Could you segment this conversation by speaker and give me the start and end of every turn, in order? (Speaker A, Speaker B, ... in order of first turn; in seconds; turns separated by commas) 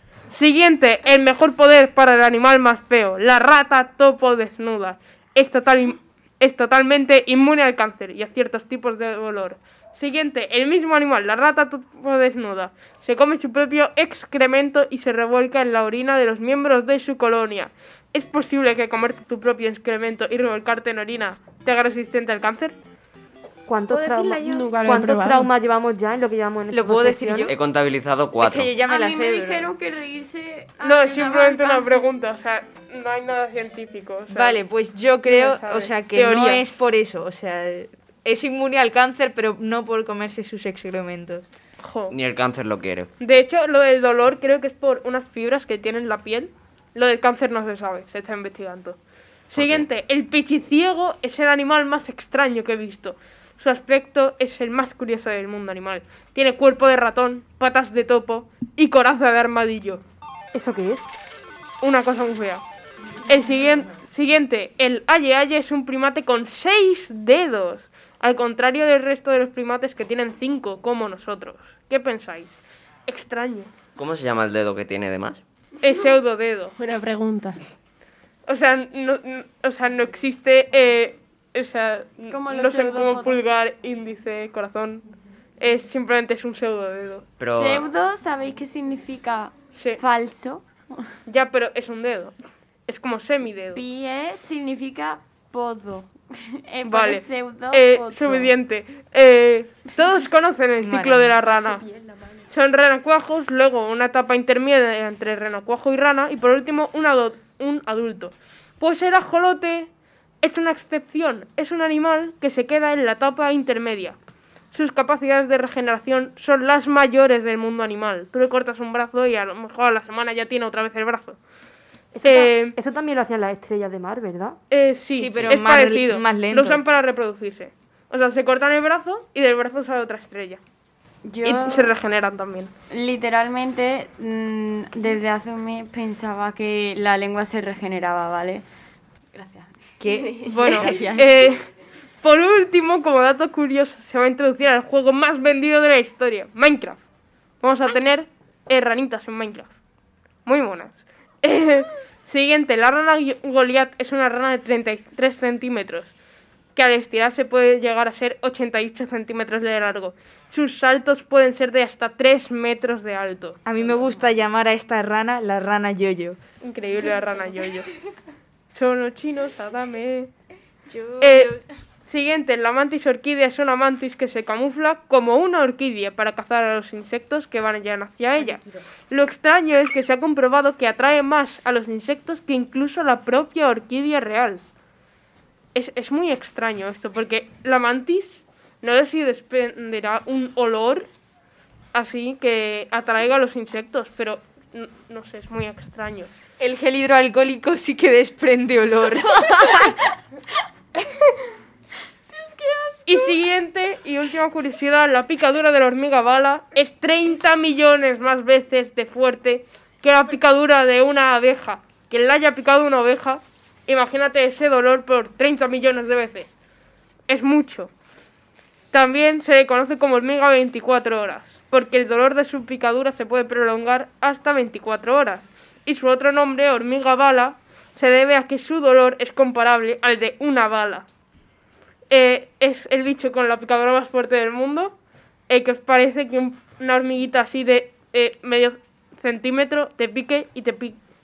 Speaker A: 0.3-22.8, Speaker B: 23.6-27.5, Speaker C: 24.0-25.5, Speaker D: 26.7-27.5, Speaker E: 27.5-28.7, Speaker D: 28.4-29.7, Speaker F: 28.8-32.1, Speaker A: 30.8-34.6, Speaker D: 34.3-41.4, Speaker A: 35.2-36.6, Speaker A: 41.8-42.1, Speaker E: 42.1-43.1, Speaker A: 43.2-60.0, Speaker E: 49.5-49.9, Speaker B: 60.5-61.1, Speaker A: 61.8-62.6, Speaker A: 63.3-72.5, Speaker A: 73.1-73.7, Speaker E: 74.0-75.4, Speaker A: 75.8-76.7, Speaker C: 76.8-77.6, Speaker A: 78.5-85.0, Speaker F: 82.3-83.4, Speaker A: 85.6-87.3, Speaker E: 87.4-87.9, Speaker F: 87.5-90.7, Speaker A: 89.7-90.0, Speaker A: 91.3-92.3, Speaker A: 92.9-93.8, Speaker F: 93.7-96.1, Speaker F: 96.7-98.5, Speaker A: 96.8-101.8, Speaker D: 100.8-101.3, Speaker A: 102.5-109.9, Speaker A: 110.4-114.2, Speaker A: 114.7-121.4, Speaker B: 122.1-124.6, Speaker A: 122.2-122.8, Speaker A: 124.7-130.6, Speaker D: 125.1-126.8, Speaker F: 131.2-131.9, Speaker A: 131.4-132.7, Speaker F: 132.9-138.6, Speaker F: 139.3-139.7, Speaker D: 140.0-141.2, Speaker A: 140.5-141.6, Speaker A: 142.2-147.0, Speaker A: 147.6-149.7, Speaker A: 150.4-156.1, Speaker A: 156.7-163.6, Speaker D: 163.6-166.4, Speaker A: 166.6-167.8, Speaker A: 168.7-170.3, Speaker D: 170.9-171.5, Speaker A: 171.2-184.6, Speaker A: 185.7-191.1, Speaker A: 191.9-196.3, Speaker D: 196.6-199.9, Speaker F: 202.4-203.3, Speaker A: 203.1-216.5, Speaker A: 217.3-217.9, Speaker A: 218.9-231.1, Speaker A: 232.1-234.9, Speaker A: 235.5-241.0